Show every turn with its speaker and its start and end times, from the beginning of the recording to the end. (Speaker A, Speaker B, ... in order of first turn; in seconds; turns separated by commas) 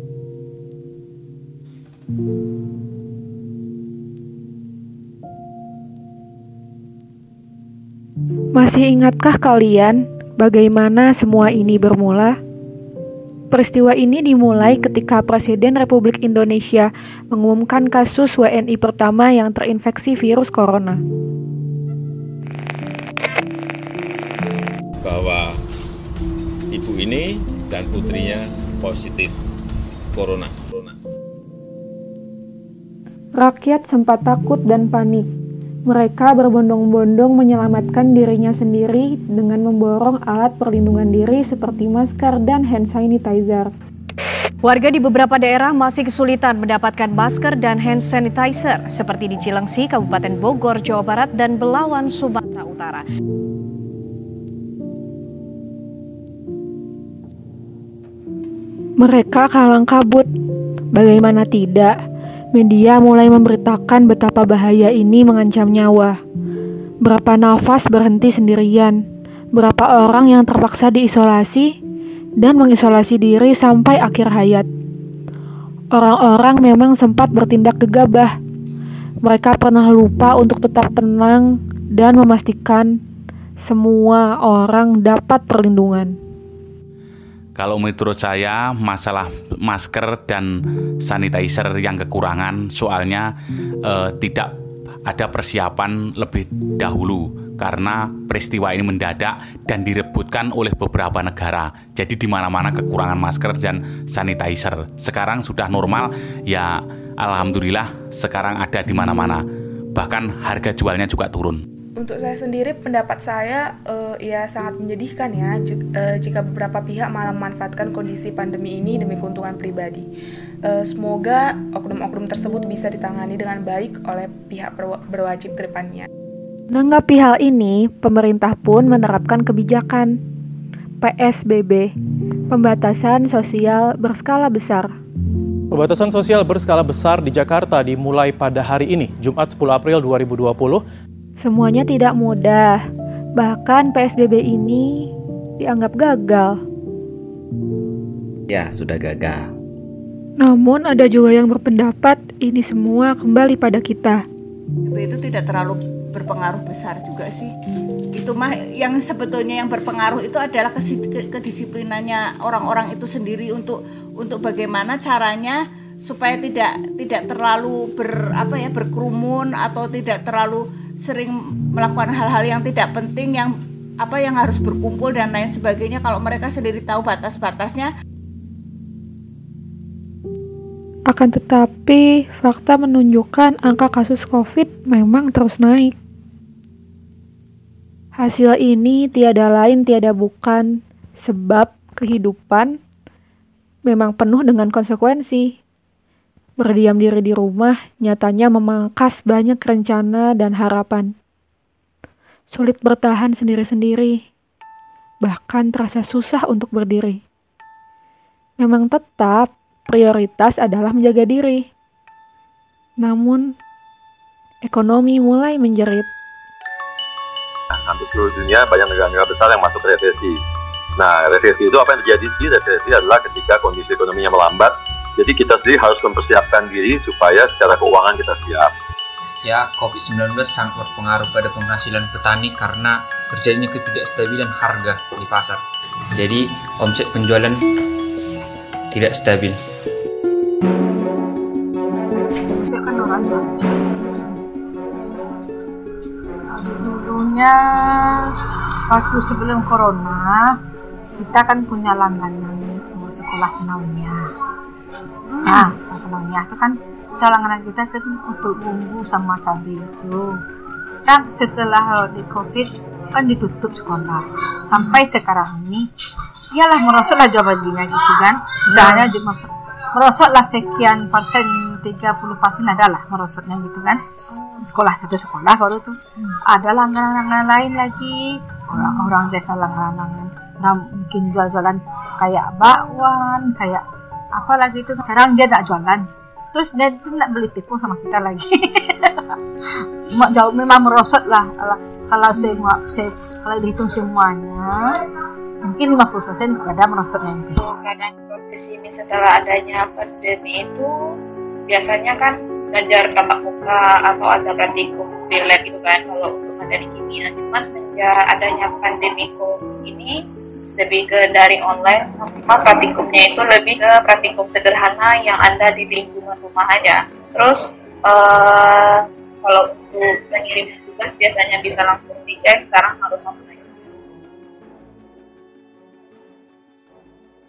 Speaker A: 8.5-12.4, Speaker A: 13.5-21.0, Speaker B: 25.0-25.6, Speaker B: 26.7-29.3, Speaker B: 30.1-30.9, Speaker A: 33.4-35.3, Speaker A: 35.9-43.7, Speaker C: 44.6-53.0, Speaker A: 59.0-60.3, Speaker A: 60.9-61.9, Speaker A: 62.5-66.2, Speaker A: 67.0-69.0, Speaker A: 69.5-71.7, Speaker A: 72.4-74.7, Speaker A: 75.9-78.3, Speaker A: 79.2-82.9, Speaker A: 83.6-86.1, Speaker D: 87.5-90.5, Speaker D: 91.0-93.3, Speaker D: 93.8-94.5, Speaker D: 95.1-109.4, Speaker D: 110.0-111.6, Speaker E: 112.0-120.0, Speaker E: 120.7-126.1, Speaker A: 126.7-130.1, Speaker A: 131.0-131.9, Speaker A: 132.5-134.9, Speaker F: 135.7-140.8, Speaker A: 141.4-142.8, Speaker A: 143.4-145.1, Speaker A: 145.6-146.6, Speaker G: 148.5-149.4, Speaker A: 150.4-154.2, Speaker H: 154.8-157.5, Speaker H: 158.2-173.5, Speaker H: 174.0-177.9, Speaker A: 181.1-185.9, Speaker A: 188.2-190.7, Speaker A: 191.2-192.8, Speaker A: 193.8-195.5, Speaker A: 196.6-201.1, Speaker A: 202.5-204.2, Speaker A: 205.2-207.2, Speaker A: 208.6-211.7, Speaker A: 213.0-213.5, Speaker A: 214.6-216.1, Speaker G: 217.8-220.4, Speaker G: 221.0-228.7, Speaker I: 229.4-235.6, Speaker I: 236.1-237.6, Speaker I: 238.9-239.6, Speaker J: 242.5-244.4, Speaker J: 246.5-248.1, Speaker J: 248.9-250.4, Speaker J: 251.2-254.2, Speaker J: 255.4-260.3, Speaker J: 261.1-265.9, Speaker J: 266.6-274.0, Speaker J: 274.5-283.8, Speaker J: 284.3-288.9, Speaker J: 290.1-295.0, Speaker J: 295.6-297.6, Speaker K: 297.6-300.9, Speaker K: 301.7-310.1, Speaker K: 310.8-323.7